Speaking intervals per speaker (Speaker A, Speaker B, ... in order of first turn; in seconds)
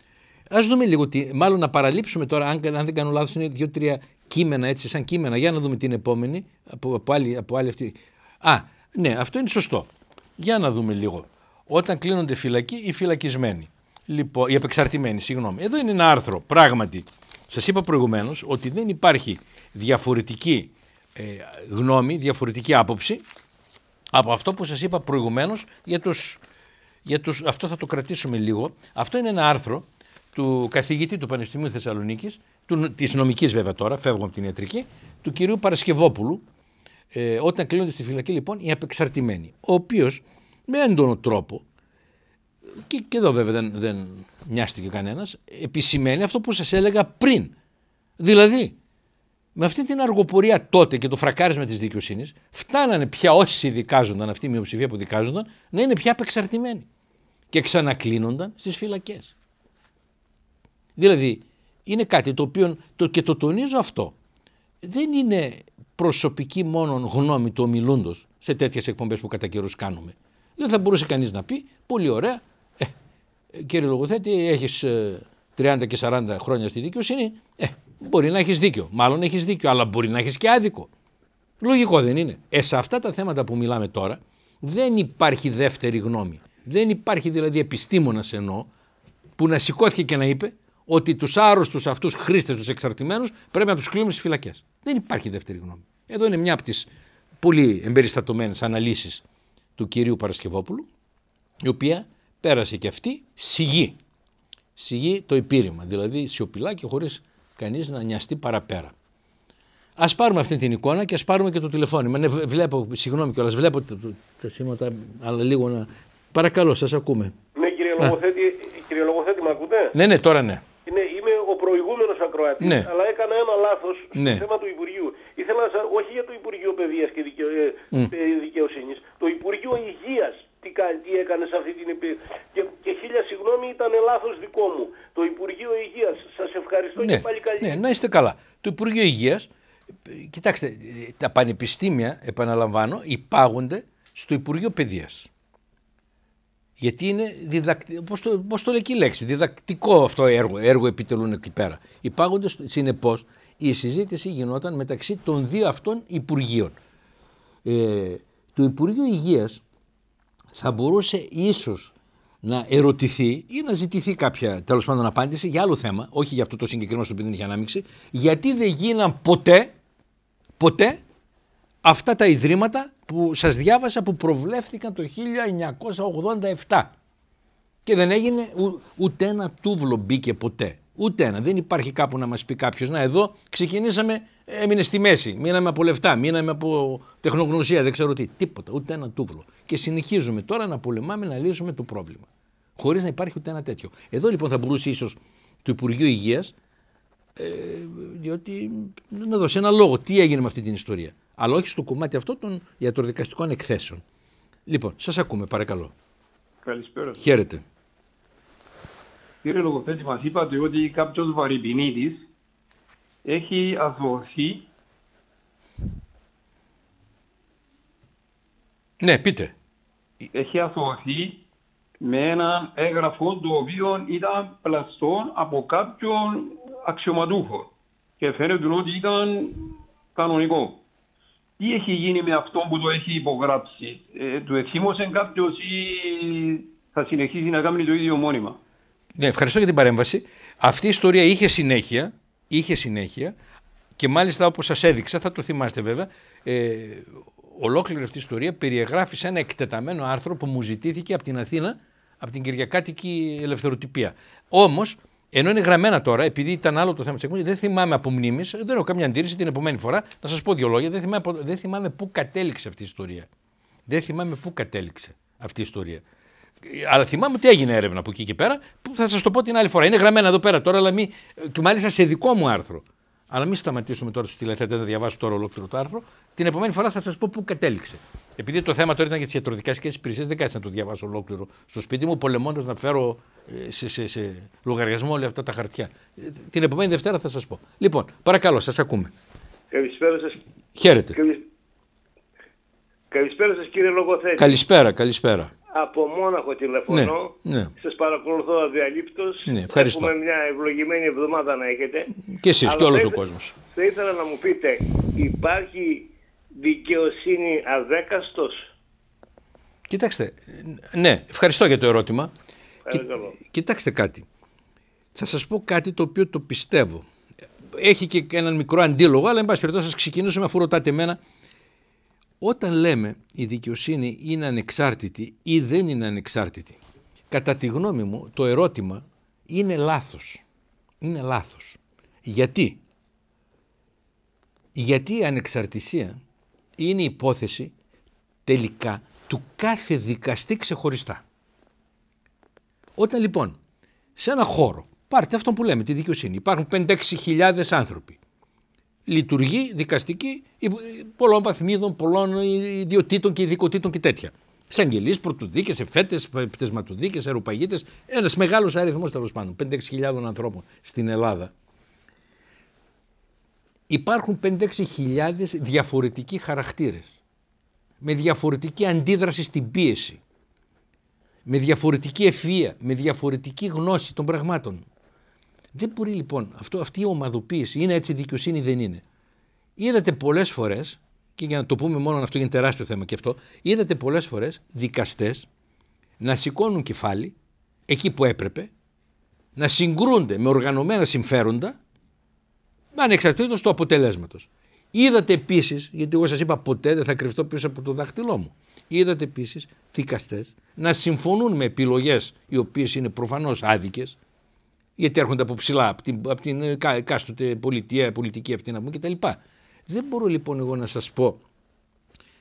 Speaker A: 0.5-23.2, 24.1-26.4, 27.1-36.4, 37.1-41.6, 42.8-47.5, 48.2-48.8, 49.5-56.9, 57.5-59.3, 61.0-64.1, 64.8-72.9, 73.5-80.9, 81.6-88.7, 89.4-96.9, 97.4-99.2, 99.8-100.9, 101.6-104.0, 104.8-108.9, 110.0-117.3, 119.9-120.6, 122.6-122.9, 124.1-124.4, 137.0-139.5, 140.1-145.3, 146.8-156.8, 157.6-159.6, 160.5-161.9, 162.4-169.7, 170.6-171.0, 171.8-176.9, 177.8-192.3, 192.8-196.5, 197.4-204.0, 204.7-205.9, 207.1-207.6, 219.0-219.5, 239.2-243.3, 244.0-263.3, 263.9-266.0, 266.6-289.1, 290.8-291.2, 294.4-295.5, 296.9-297.7, 299.4-300.1, 302.3-303.5, 309.9-312.3, 312.9-314.2, 315.1-317.1, 317.7-321.2, 322.4-326.8, 327.3-330.4, 331.0-332.8, 334.7-336.2, 336.8-337.7, 338.4-341.2, 343.0-343.6, 344.2-348.2, 349.1-361.5, 363.9-367.2, 368.0-370.2, 371.4-374.8, 375.7-379.0, 379.8-385.5, 386.2-387.3, 387.9-388.7, 389.6-391.8, 392.9-404.2, 405.0-411.4
Speaker B: 117.5-119.9, 120.8-137.8
Speaker C: 206.6-207.2, 209.4-212.2, 213.2-214.7, 220.3-221.4, 222.0-230.8, 231.6-238.6
Speaker D: 289.7-290.4, 291.1-291.4, 293.1-294.6, 295.7-308.6, 312.9-313.3